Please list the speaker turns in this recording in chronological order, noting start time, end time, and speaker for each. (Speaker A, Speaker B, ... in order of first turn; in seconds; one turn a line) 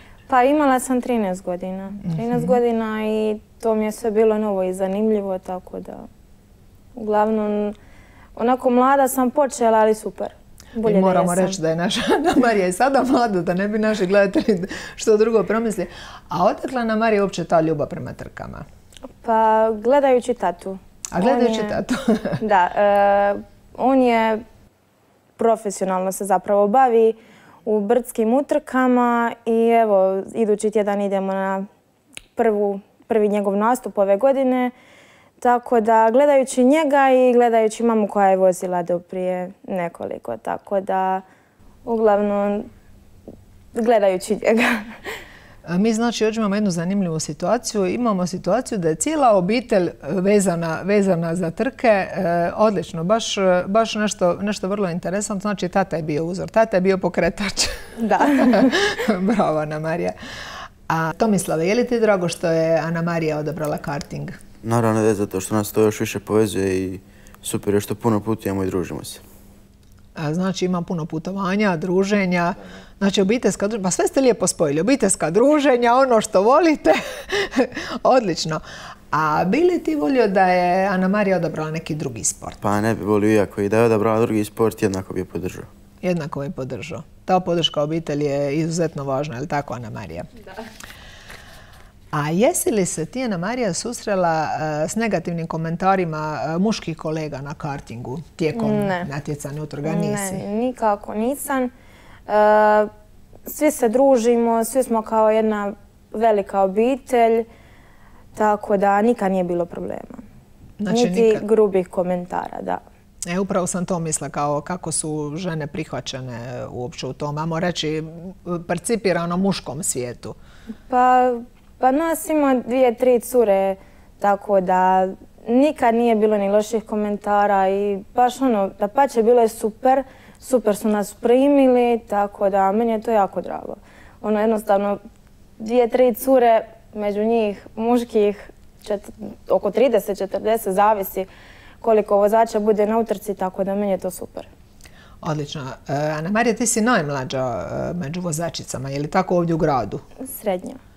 Speaker A: 0.3-6.1
Speaker B: 2.0-2.6
Speaker A: 7.0-7.8
Speaker A: 8.4-11.6
Speaker B: 10.8-18.7
Speaker A: 19.2-21.8
Speaker B: 21.1-22.4
Speaker A: 22.4-24.4
Speaker A: 25.4-31.7
Speaker A: 32.4-34.7
Speaker A: 35.4-41.2
Speaker A: 41.9-42.7
Speaker A: 43.7-44.9
Speaker B: 45.7-60.2
Speaker A: 58.0-58.9
Speaker B: 60.9-64.4
Speaker C: 64.6-69.2
Speaker B: 70.2-82.6
Speaker C: 82.6-85.7
Speaker B: 86.0-90.3
Speaker B: 92.1-100.4
Speaker A: 98.5-99.1
Speaker A: 99.8-101.7
Speaker A: 102.3-102.9
Speaker A: 103.5-107.5
Speaker A: 108.3-110.2
Speaker B: 110.8-111.5
Speaker A: 110.9-112.8
Speaker B: 113.3-120.4
Speaker A: 120.9-135.0
Speaker A: 135.6-141.3
Speaker A: 141.8-144.5
Speaker B: 145.2-150.0
Speaker A: 150.2-150.8